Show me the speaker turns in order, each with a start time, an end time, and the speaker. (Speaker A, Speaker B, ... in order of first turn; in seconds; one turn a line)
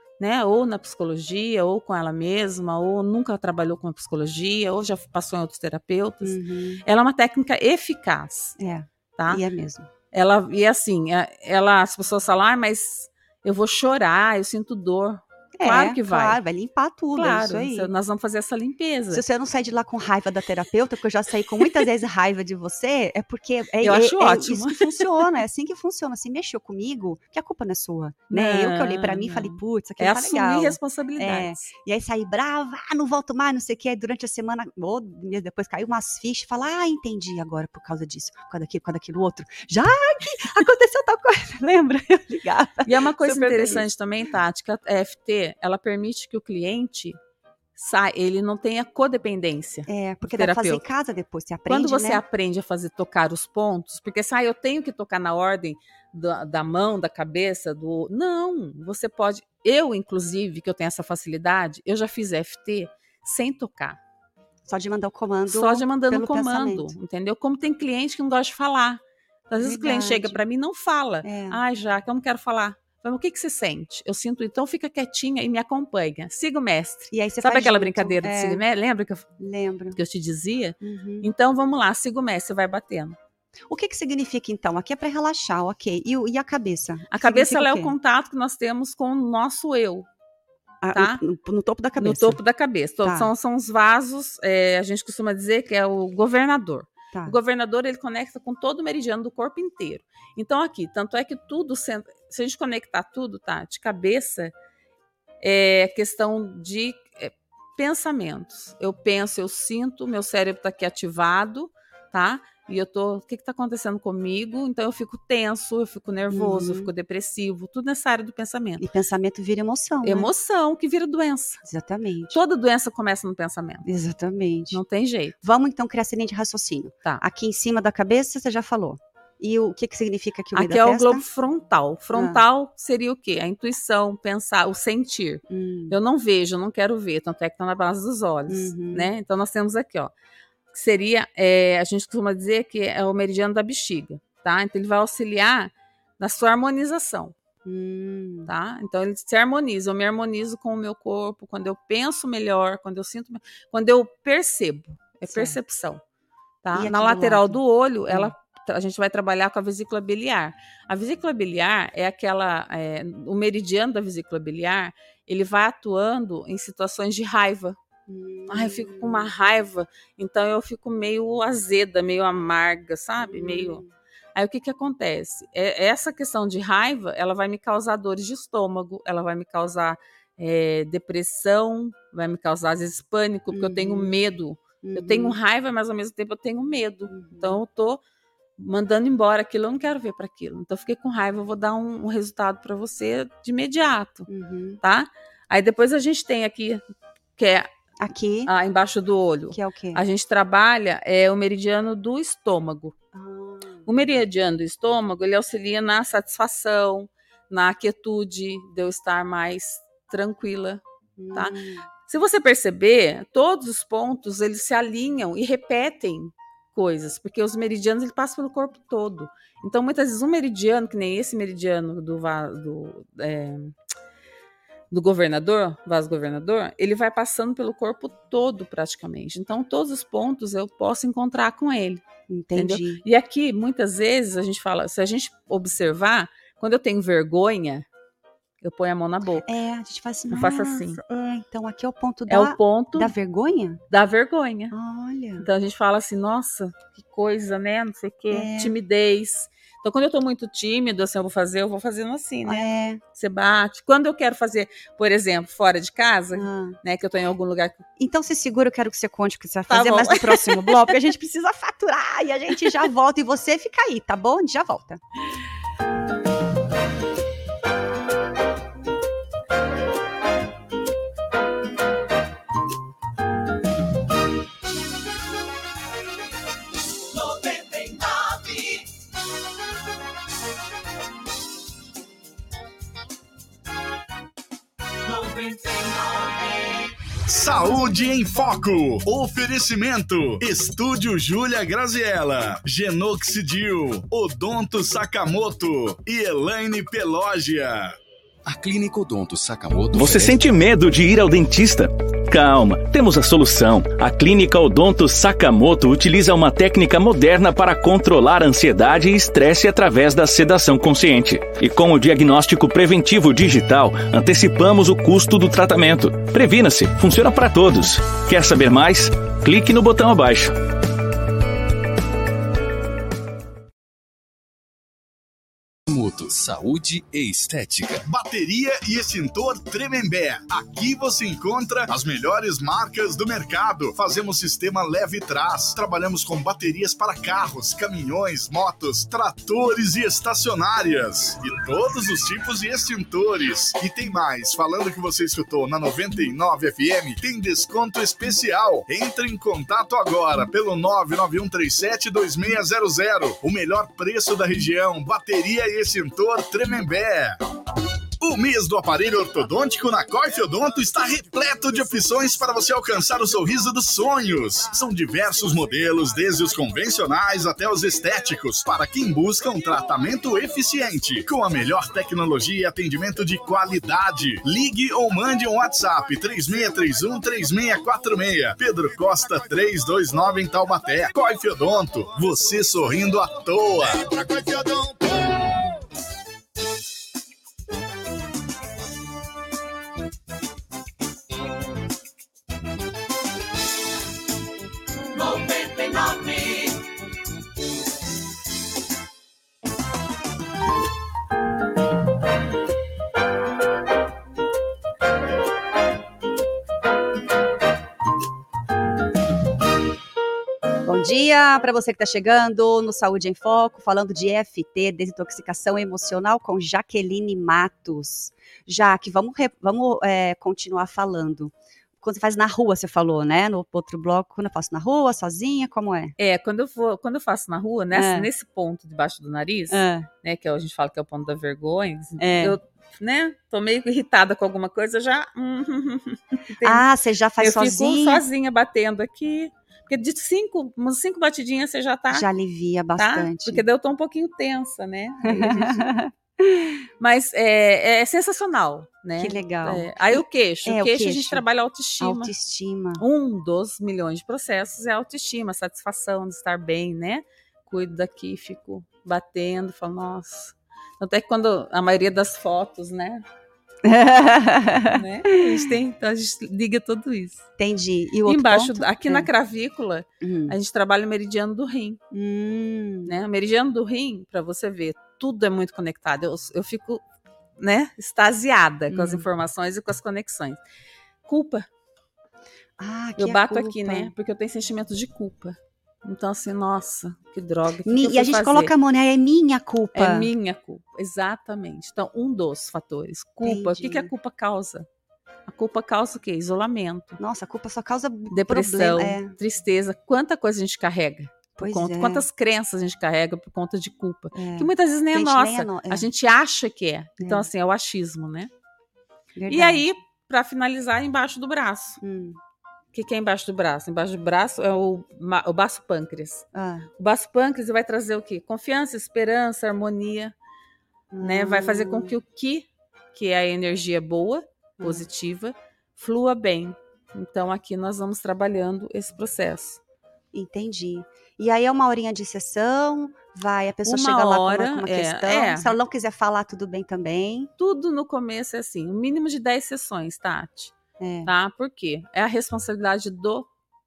Speaker A: 0.2-8.6
Speaker B: 6.2-6.8
Speaker B: 8.6-9.9
Speaker A: 9.2-9.4
Speaker A: 10.1-16.4
Speaker B: 15.6-17.9
Speaker A: 17.1-19.2
Speaker B: 19.1-43.8
Speaker A: 23.8-25.2
Speaker A: 28.3-31.7
Speaker A: 42.9-47.2
Speaker A: 47.8-50.8
Speaker B: 49.9-52.2
Speaker A: 51.7-64.0
Speaker B: 64.7-66.9
Speaker A: 65.5-79.3
Speaker B: 69.6-70.4
Speaker B: 71.2-71.6
Speaker B: 77.1-78.6
Speaker B: 79.4-80.0
Speaker A: 79.9-83.2
Speaker B: 80.8-81.3
Speaker B: 83.7-87.9
Speaker A: 87.1-90.1
Speaker B: 90.8-92.4
Speaker A: 90.9-91.2
Speaker A: 92.0-104.5
Speaker B: 93.0-93.3
Speaker A: 105.4-118.8
Speaker B: 116.3-116.9
Speaker B: 118.8-120.3
Speaker A: 120.0-121.6
Speaker B: 121.6-122.4
Speaker A: 122.3-123.8
Speaker B: 123.8-124.8
Speaker A: 124.7-125.3
Speaker B: 125.4-131.2
Speaker A: 130.5-140.1
Speaker B: 132.1-132.4
Speaker B: 135.5-135.9
Speaker B: 138.5-139.1
Speaker A: 140.7-147.3
Speaker B: 147.7-148.5
Speaker A: 148.5-156.0
Speaker B: 155.3-155.6
Speaker A: 156.6-167.8
Speaker B: 156.7-158.3
Speaker B: 168.1-169.3
Speaker A: 168.5-173.8
Speaker B: 173.2-173.9
Speaker A: 174.3-188.0
Speaker B: 183.5-184.1
Speaker B: 184.8-185.3
Speaker B: 187.1-187.6
Speaker A: 188.6-194.3
Speaker B: 194.3-194.8
Speaker A: 194.8-196.8
Speaker A: 197.4-197.7
Speaker B: 198.0-198.5
Speaker A: 198.5-202.9
Speaker B: 199.5-200.0
Speaker B: 203.1-204.1
Speaker A: 203.8-210.8
Speaker B: 211.2-211.8
Speaker A: 211.3-223.7
Speaker A: 224.9-232.0
Speaker B: 232.3-233.0
Speaker A: 232.6-237.8
Speaker A: 238.6-239.5
Speaker B: 239.4-243.8
Speaker A: 240.3-241.0
Speaker A: 242.3-243.1
Speaker A: 243.9-244.7
Speaker B: 244.7-245.4
Speaker A: 245.4-257.8
Speaker B: 248.3-248.8
Speaker B: 252.4-253.0
Speaker B: 256.3-256.8
Speaker B: 258.0-265.0
Speaker A: 259.7-260.9
Speaker A: 277.8-278.5
Speaker C: 287.2-298.0
Speaker D: 298.4-300.4
Speaker E: 299.9-320.5
Speaker D: 325.9-328.0
Speaker C: 328.1-357.4
Speaker C: 358.2-384.7
Speaker A: 395.4-396.4
Speaker B: 410.9-426.1
Speaker A: 426.2-436.8
Speaker B: 427.9-428.3
Speaker B: 429.7-430.1
Speaker B: 432.2-432.6
Speaker B: 436.6-438.2
Speaker A: 437.4-442.2
Speaker B: 442.1-443.6
Speaker A: 443.0-445.8
Speaker B: 445.2-446.8
Speaker A: 447.0-452.3
Speaker B: 449.2-451.4
Speaker B: 452.0-453.0
Speaker A: 453.0-463.2
Speaker B: 463.8-465.7
Speaker A: 464.9-467.4
Speaker B: 467.6-469.3
Speaker A: 468.2-472.0
Speaker B: 470.2-470.5
Speaker B: 472.1-473.2
Speaker A: 473.1-477.0
Speaker A: 477.6-480.6
Speaker B: 478.9-479.2
Speaker A: 481.2-481.7
Speaker B: 482.8-484.1
Speaker A: 483.2-488.7
Speaker B: 487.9-490.3
Speaker A: 489.9-494.9
Speaker B: 493.4-494.1
Speaker A: 495.5-497.2
Speaker B: 497.2-499.4
Speaker A: 498.3-508.5
Speaker B: 501.6-502.2
Speaker B: 504.3-506.1
Speaker B: 507.2-507.5
Speaker B: 509.4-509.8
Speaker A: 509.5-512.0
Speaker B: 512.0-512.4
Speaker A: 512.9-516.5
Speaker B: 516.5-516.9
Speaker A: 517.0-520.3
Speaker B: 521.1-522.1
Speaker A: 521.2-529.8
Speaker B: 524.8-525.1
Speaker B: 530.3-537.5
Speaker A: 533.9-535.7
Speaker A: 537.6-540.7
Speaker B: 541.0-541.3
Speaker A: 541.2-543.5